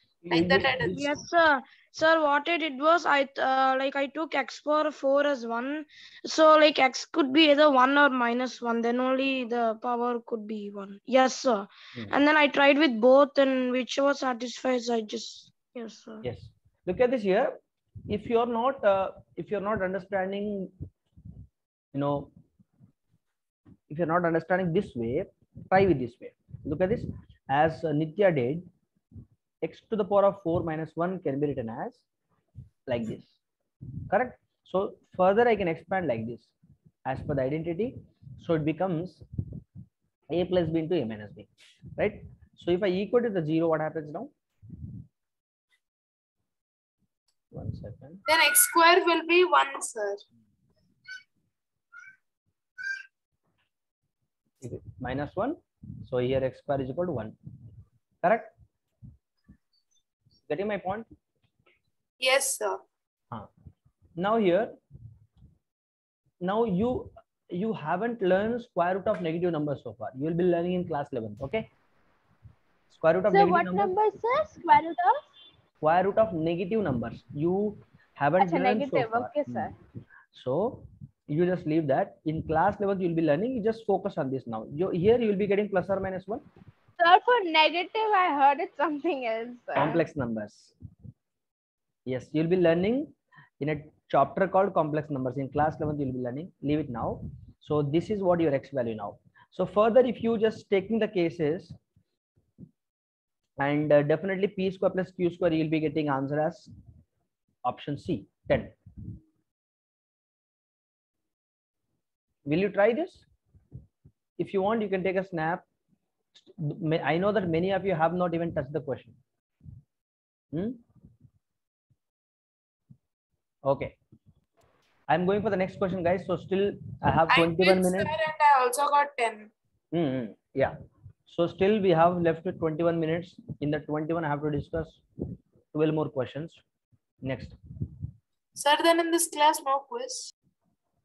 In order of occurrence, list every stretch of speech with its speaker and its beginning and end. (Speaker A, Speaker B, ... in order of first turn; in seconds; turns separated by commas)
Speaker A: 0.2-1.1, Speaker B: 0.3-1.0, Speaker C: 0.9-16.2, Speaker A: 16.2-17.6, Speaker A: 18.1-20.7, Speaker A: 21.9-22.3, Speaker A: 23.9-28.7, Speaker A: 29.6-32.0, Speaker A: 32.9-33.4, Speaker A: 34.1-36.5, Speaker A: 37.0-39.2, Speaker A: 40.3-44.3, Speaker A: 47.5-48.2, Speaker B: 48.3-50.2, Speaker A: 54.6-57.3, Speaker A: 58.2-58.5, Speaker A: 60.5-61.1, Speaker B: 62.2-62.8, Speaker A: 64.2-64.8, Speaker A: 66.4-71.7, Speaker A: 72.9-73.9, Speaker D: 73.3-75.2, Speaker A: 75.8-79.7, Speaker D: 78.4-79.7, Speaker A: 80.3-86.4, Speaker D: 87.0-90.0, Speaker A: 89.7-90.7, Speaker A: 92.0-101.8, Speaker A: 103.6-106.7, Speaker A: 107.6-108.8, Speaker A: 112.5-113.2, Speaker A: 114.4-115.6, Speaker A: 116.3-119.2, Speaker A: 120.5-120.8, Speaker A: 123.6-124.0, Speaker A: 125.1-128.1, Speaker B: 127.3-129.5, Speaker A: 129.9-130.8, Speaker A: 131.3-135.0, Speaker A: 135.7-136.6, Speaker A: 137.2-137.6, Speaker B: 138.5-140.3